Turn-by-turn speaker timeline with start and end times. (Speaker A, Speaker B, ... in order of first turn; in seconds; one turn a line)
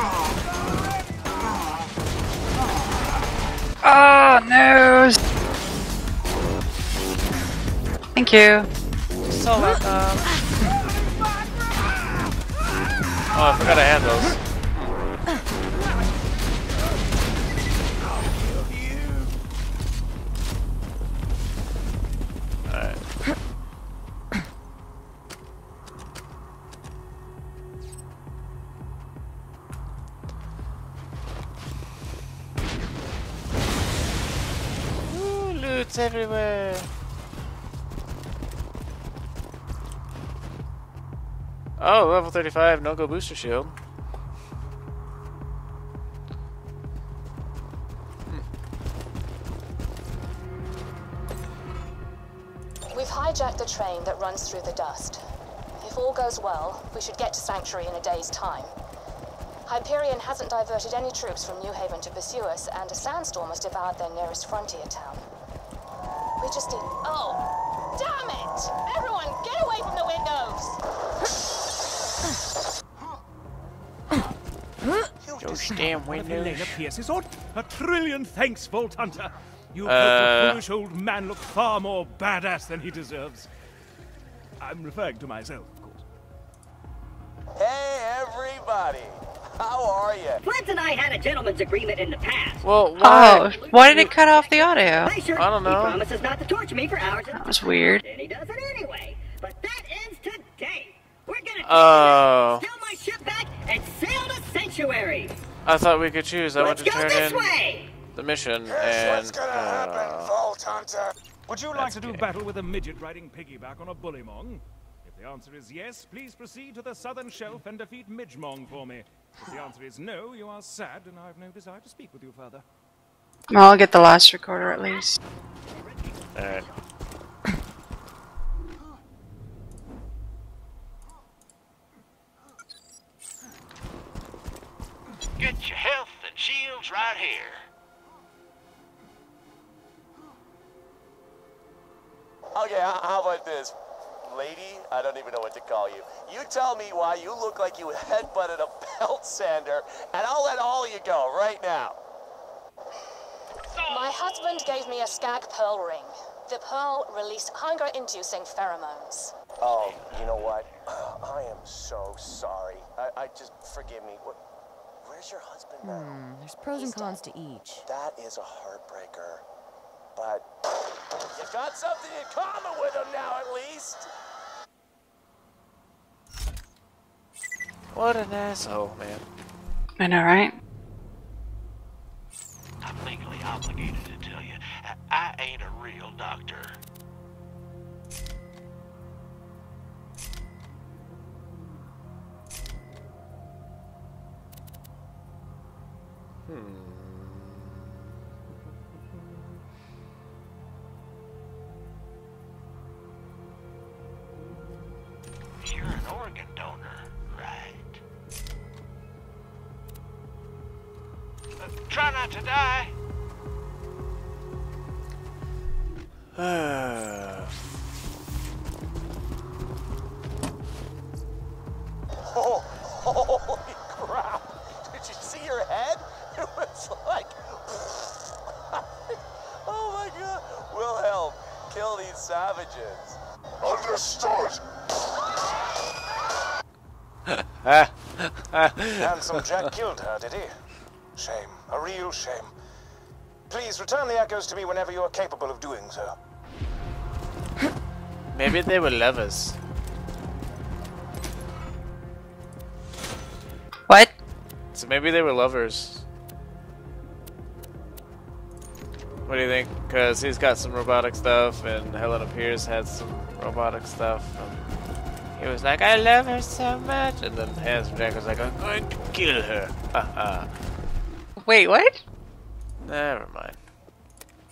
Speaker A: 3.8-5.2
Speaker A: 8.2-8.7
Speaker B: 9.2-10.3
Speaker B: 13.3-14.9
Speaker B: 22.6-23.0
Speaker B: 35.0-36.9
Speaker B: 41.8-43.8
Speaker C: 52.9-55.2
Speaker C: 55.8-58.7
Speaker C: 59.6-65.2
Speaker C: 66.4-70.8
Speaker D: 75.2-75.9
Speaker B: 75.4-76.8
Speaker E: 75.9-83.5
Speaker B: 79.8-80.6
Speaker E: 84.6-86.0
Speaker D: 87.6-90.4
Speaker F: 90.4-92.7
Speaker B: 92.6-94.1
Speaker A: 93.0-95.1
Speaker F: 93.3-105.4
Speaker B: 95.3-96.0
Speaker A: 97.3-98.0
Speaker B: 101.6-102.7
Speaker B: 105.6-107.5
Speaker F: 106.6-107.9
Speaker B: 108.1-110.3
Speaker D: 108.7-111.8
Speaker B: 111.7-112.2
Speaker E: 111.7-122.6
Speaker A: 123.5-125.2
Speaker B: 126.3-126.6
Speaker G: 135.4-137.7
Speaker D: 142.5-152.0
Speaker G: 153.7-154.8
Speaker C: 153.9-159.3
Speaker D: 159.6-164.4
Speaker G: 159.8-160.1
Speaker D: 165.0-166.2
Speaker H: 165.8-167.8
Speaker D: 166.7-167.2
Speaker D: 167.8-169.4
Speaker D: 170.2-170.4
Speaker D: 171.3-174.1
Speaker B: 177.9-179.2
Speaker A: 180.0-180.5
Speaker G: 182.8-186.8
Speaker B: 196.5-197.9
Speaker G: 205.6-208.0
Speaker G: 211.6-212.9
Speaker B: 216.3-217.6
Speaker D: 222.2-228.2
Speaker D: 229.6-234.6
Speaker B: 237.3-239.4
Speaker D: 239.0-240.6
Speaker D: 241.2-242.5
Speaker D: 243.5-246.2
Speaker B: 248.3-249.6
Speaker B: 254.7-256.0
Speaker B: 259.2-264.6
Speaker B: 265.4-270.5
Speaker A: 271.4-272.0
Speaker B: 272.8-273.6